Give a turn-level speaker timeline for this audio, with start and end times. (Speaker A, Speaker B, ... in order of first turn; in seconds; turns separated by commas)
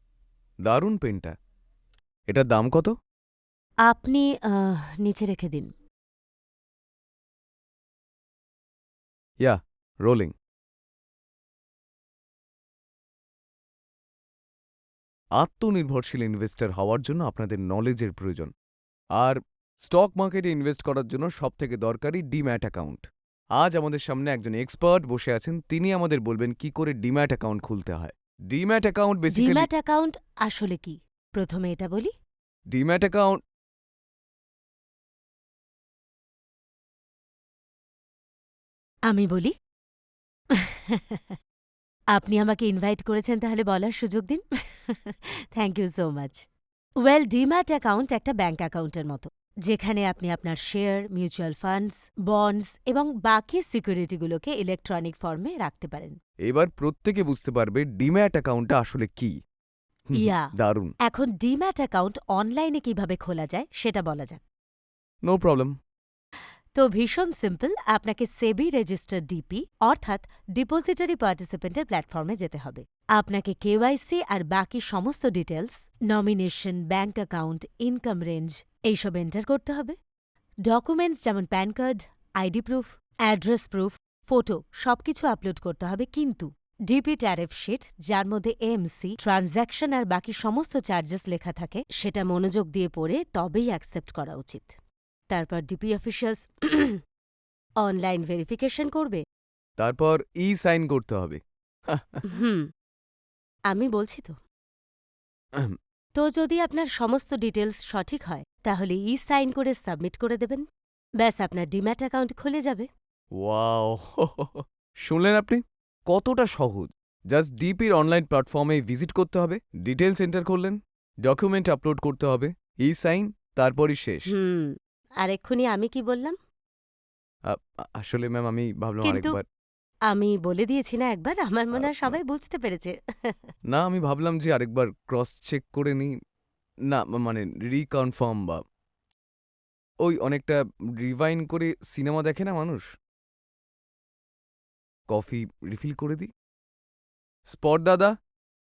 Speaker A: 0.7-1.3, Speaker A: 2.3-2.9, Speaker B: 3.9-5.7, Speaker A: 9.4-10.3, Speaker A: 15.4-18.5, Speaker A: 19.2-23.0, Speaker A: 23.6-29.7, Speaker B: 29.3-32.1, Speaker A: 32.7-33.4, Speaker B: 39.1-39.5, Speaker B: 40.6-41.3, Speaker B: 42.1-46.4, Speaker B: 47.0-56.2, Speaker A: 56.5-59.3, Speaker A: 60.1-60.9, Speaker B: 60.1-60.5, Speaker B: 61.1-64.4, Speaker A: 65.3-65.7, Speaker B: 66.8-80.0, Speaker B: 80.7-94.7, Speaker B: 95.3-97.0, Speaker B: 97.8-99.2, Speaker A: 99.8-101.4, Speaker A: 101.9-102.2, Speaker B: 102.3-102.6, Speaker B: 103.7-104.3, Speaker B: 106.2-110.6, Speaker B: 111.2-112.9, Speaker A: 113.4-124.3, Speaker B: 124.3-124.7, Speaker B: 125.2-126.4, Speaker A: 127.5-129.4, Speaker B: 129.0-129.4, Speaker B: 130.1-133.4, Speaker A: 131.7-132.2, Speaker A: 133.7-136.1, Speaker A: 136.9-138.6, Speaker A: 140.0-142.8, Speaker A: 145.1-146.3, Speaker A: 147.5-148.1